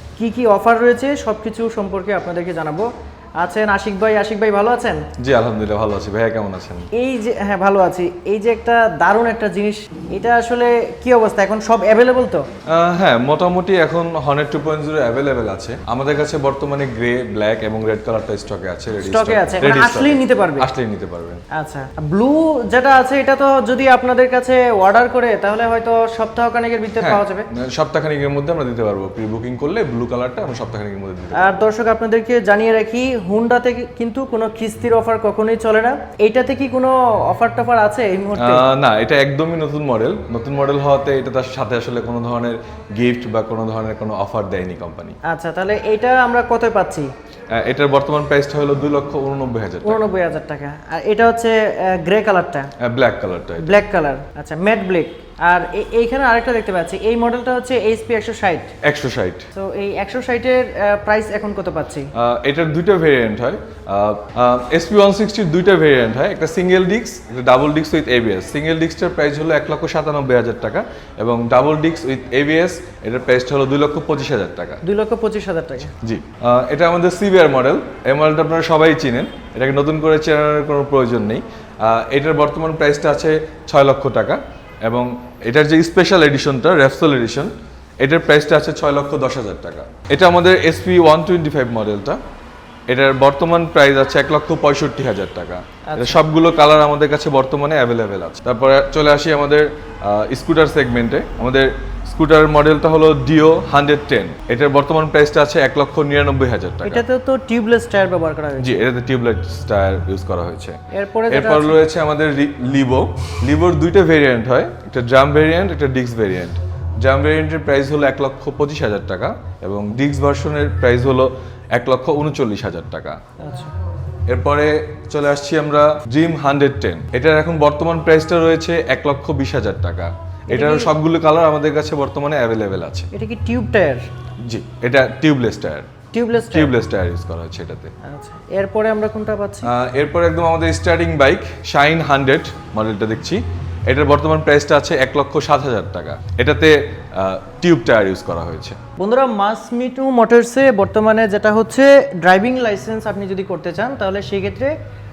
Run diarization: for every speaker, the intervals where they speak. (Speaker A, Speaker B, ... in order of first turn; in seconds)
Speaker A: 0.2-2.9, 3.4-5.0, 6.9-12.4, 19.0-20.7, 21.5-27.5, 31.3-38.6, 45.2-47.1, 49.8-52.7, 53.6-58.7, 59.5-62.1, 74.8-75.9, 95.9-96.2, 106.8-108.8, 110.9-111.8, 123.4-123.7, 130.5-130.9, 133.1-134.0, 136.1-136.7, 138.0-139.7, 149.0-154.7
Speaker B: 5.2-6.9, 12.7-21.4, 27.0-31.6, 38.4-45.1, 47.5-50.0, 52.8-53.8, 58.8-59.5, 62.1-74.8, 76.0-92.2, 92.9-107.0, 108.6-110.8, 111.3-123.2, 124.3-133.1, 134.4-135.9, 136.5-137.9, 139.6-148.8